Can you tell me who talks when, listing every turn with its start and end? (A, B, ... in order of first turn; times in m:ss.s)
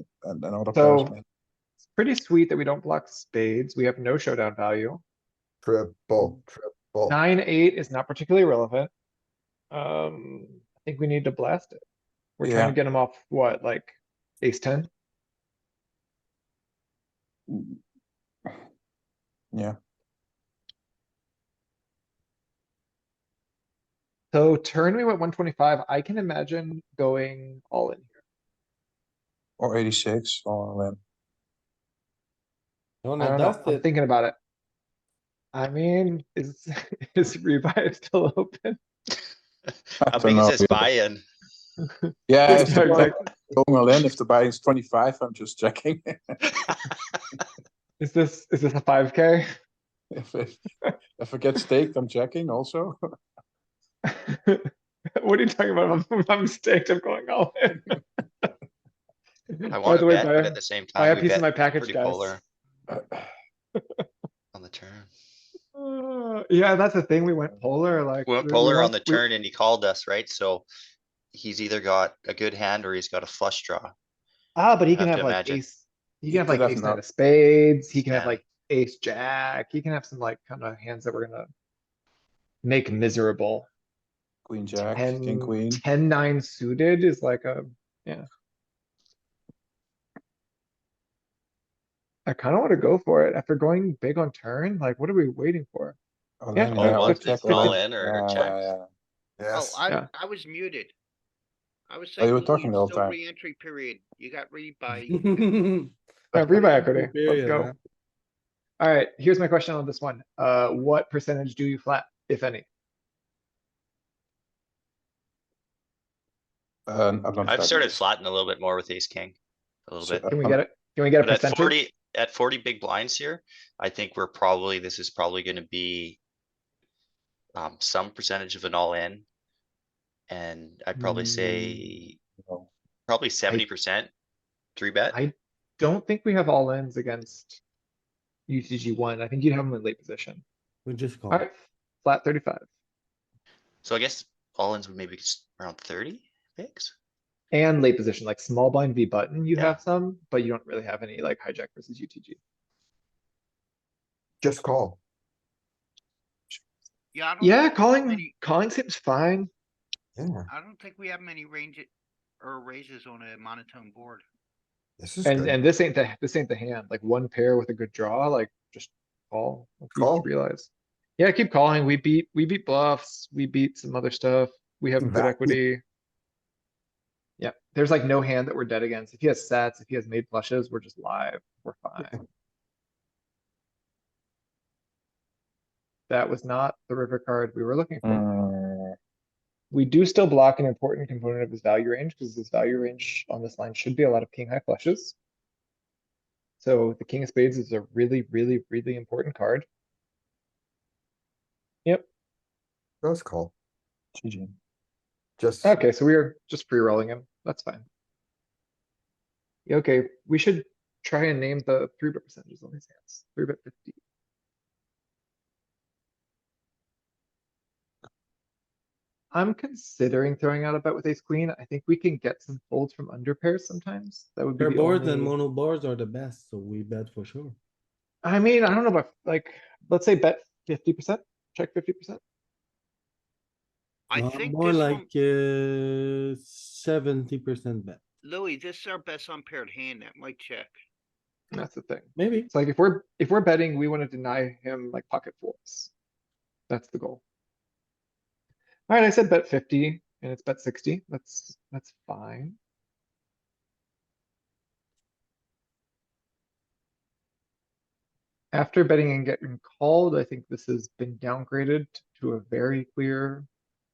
0:00.2-0:01.2 A
0:00.7-0:01.2 B
0:01.8-0:05.0 B
0:05.6-0:07.2 C
0:07.1-0:08.9 B
0:09.7-0:11.8 B
0:12.4-0:14.9 B
0:12.4-0:12.8 A
0:17.5-0:17.8 A
0:24.3-0:28.2 B
0:29.6-0:31.0 A
0:33.0-0:33.9 D
0:33.2-0:34.4 B
0:35.5-0:38.8 B
0:40.0-0:40.9 A
0:40.1-0:41.2 E
0:41.8-0:43.3 B
0:42.3-0:46.4 A
0:48.0-0:49.5 B
0:50.1-0:50.6 A
0:51.2-0:53.0 A
0:54.0-0:58.0 B
0:59.5-1:02.4 B
0:59.7-1:02.4 E
1:02.9-1:03.3 A
1:04.5-1:05.1 E
1:05.8-1:09.2 B
1:08.3-1:10.7 E
1:11.3-1:13.9 E
1:14.6-1:21.5 B
1:14.9-1:15.6 E
1:16.3-1:17.0 A
1:18.1-1:18.4 E
1:22.6-1:23.7 B
1:24.5-1:25.8 A
1:24.9-1:28.3 B
1:32.3-1:36.0 B
1:36.4-1:38.8 A
1:36.6-1:37.8 B
1:36.7-1:38.7 E
1:39.4-1:39.8 C
1:39.5-1:40.9 F
1:41.9-1:45.5 F
1:42.2-1:43.2 A
1:45.1-1:47.8 D
1:46.3-1:47.7 B
1:48.8-1:52.7 B
1:56.9-1:57.9 A
1:57.4-1:59.4 E
1:59.9-2:00.3 E
2:00.0-2:00.6 A
2:00.3-2:01.8 B
2:01.2-2:06.2 E
2:07.6-2:09.2 E
2:10.3-2:12.2 E
2:11.4-2:11.7 A
2:12.4-2:12.7 A
2:13.1-2:14.1 E
2:14.8-2:15.2 E
2:15.1-2:17.6 B
2:18.5-2:20.4 B
2:20.9-2:21.4 D
2:21.3-2:22.6 B
2:23.8-2:26.9 E
2:27.5-2:32.4 B
2:34.4-2:35.0 C
2:37.1-2:38.3 F
2:37.4-2:39.5 B
2:40.2-2:40.5 C
2:40.5-2:41.9 F
2:42.4-2:44.2 F
2:45.0-2:45.6 C
2:45.2-2:55.8 B
2:49.9-2:50.3 C
2:55.0-2:55.5 C
2:57.4-3:02.2 B
3:06.1-3:08.3 B
3:08.0-3:09.0 A
3:09.7-3:15.2 B
3:16.6-3:19.7 B
3:23.0-3:23.5 C
3:24.2-3:24.6 A
3:25.4-3:25.8 C
3:25.6-3:27.8 B
3:29.7-3:34.0 B
3:39.3-3:45.4 B
3:44.6-3:47.6 D
3:48.2-3:52.2 B
3:54.1-3:55.1 F
3:54.1-3:58.0 D
3:58.2-4:00.7 F
4:01.5-4:05.9 B
4:02.2-4:02.5 D
4:06.7-4:07.2 B
4:08.9-4:12.6 B
4:18.5-4:23.5 B